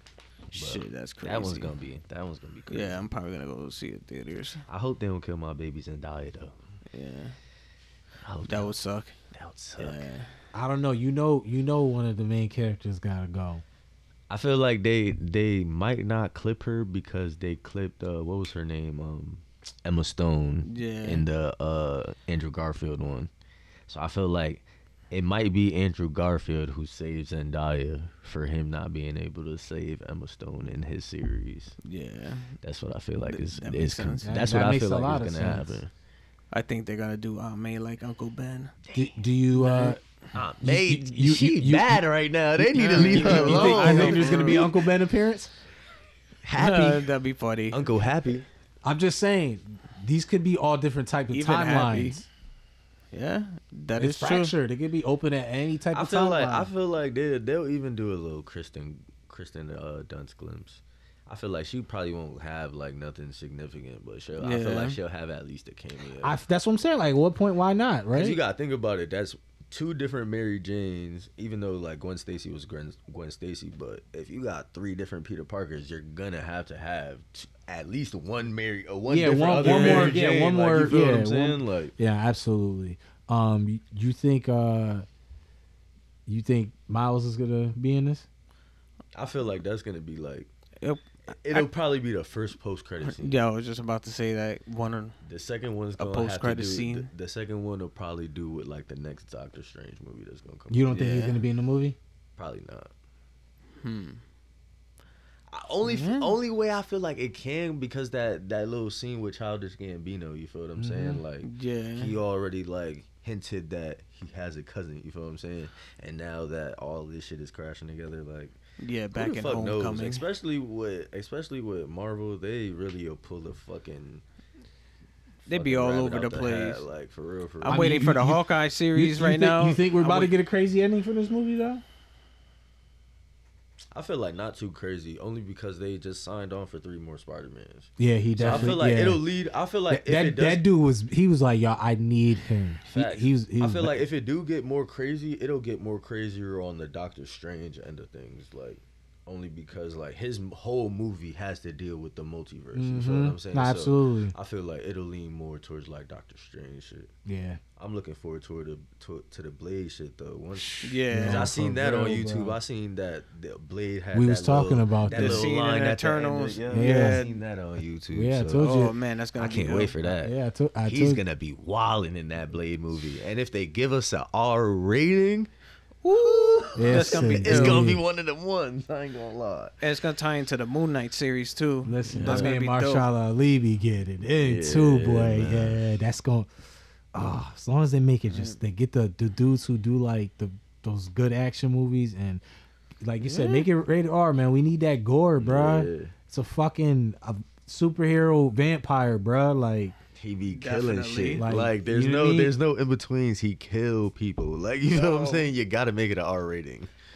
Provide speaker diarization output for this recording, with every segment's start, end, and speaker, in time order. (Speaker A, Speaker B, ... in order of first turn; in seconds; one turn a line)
Speaker A: 0.5-1.7
Speaker B: 0.5-3.0
Speaker A: 2.7-4.6
Speaker B: 4.7-6.5
Speaker A: 6.9-7.3
Speaker B: 8.2-8.7
Speaker A: 8.5-9.1
Speaker B: 9.3-10.1
Speaker A: 9.8-10.3
Speaker C: 10.5-13.6
Speaker B: 14.3-23.3
Speaker A: 20.6-21.2
Speaker B: 23.9-31.8
Speaker A: 31.8-32.5
Speaker B: 32.6-35.9
Speaker A: 33.3-34.3
Speaker C: 34.2-35.8
Speaker A: 36.5-38.7
Speaker C: 38.9-40.0
Speaker A: 39.5-40.0
Speaker B: 40.3-44.8
Speaker C: 40.6-42.0
Speaker C: 42.6-45.5
Speaker A: 42.7-44.6
Speaker B: 46.4-47.1
Speaker A: 46.5-47.8
Speaker B: 47.7-48.5
Speaker C: 48.8-52.2
Speaker A: 51.3-52.2
Speaker A: 53.1-54.5
Speaker C: 54.0-56.7
Speaker B: 55.9-66.4
Speaker A: 64.4-65.0
Speaker C: 66.2-68.4
Speaker B: 68.1-81.9
Speaker C: 79.1-85.0
Speaker A: 79.6-80.2
Speaker C: 86.3-88.2
Speaker B: 89.1-90.5
Speaker A: 90.8-91.7
Speaker B: 91.3-93.4
Speaker A: 93.0-95.2
Speaker B: 95.2-101.4
Speaker A: 96.0-97.1
Speaker C: 100.7-102.0
Speaker B: 102.4-102.9
Speaker A: 103.8-104.2
Speaker B: 105.5-118.5
Speaker A: 105.8-106.3
Speaker C: 110.8-111.2
Speaker A: 111.4-112.1
Speaker A: 118.8-120.2
Speaker B: 119.1-124.2
Speaker B: 125.4-127.9
Speaker A: 125.5-126.8
Speaker A: 127.6-130.3
Speaker C: 127.6-131.8
Speaker B: 133.9-140.6
Speaker C: 138.0-139.2
Speaker A: 138.4-138.7
Speaker C: 139.9-144.0
Speaker B: 142.8-157.1
Speaker C: 152.7-154.3
Speaker C: 157.2-157.6
Speaker B: 157.8-168.7
Speaker A: 160.7-161.5
Speaker C: 161.1-162.6
Speaker C: 164.1-165.5
Speaker A: 165.1-167.3
Speaker C: 166.7-167.2
Speaker C: 168.1-168.9
Speaker A: 168.6-170.0
Speaker B: 169.3-175.5
Speaker C: 170.2-171.2
Speaker A: 176.0-177.9
Speaker B: 176.1-179.8
Speaker C: 176.8-178.0
Speaker A: 179.8-183.1
Speaker C: 181.8-186.5
Speaker B: 182.1-182.5
Speaker B: 184.4-185.8
Speaker C: 187.1-192.4
Speaker A: 188.3-188.6
Speaker C: 193.0-199.9
Speaker A: 193.2-193.7
Speaker B: 195.4-196.1
Speaker B: 200.2-206.9
Speaker A: 200.5-201.4
Speaker C: 201.4-202.5
Speaker A: 204.9-205.5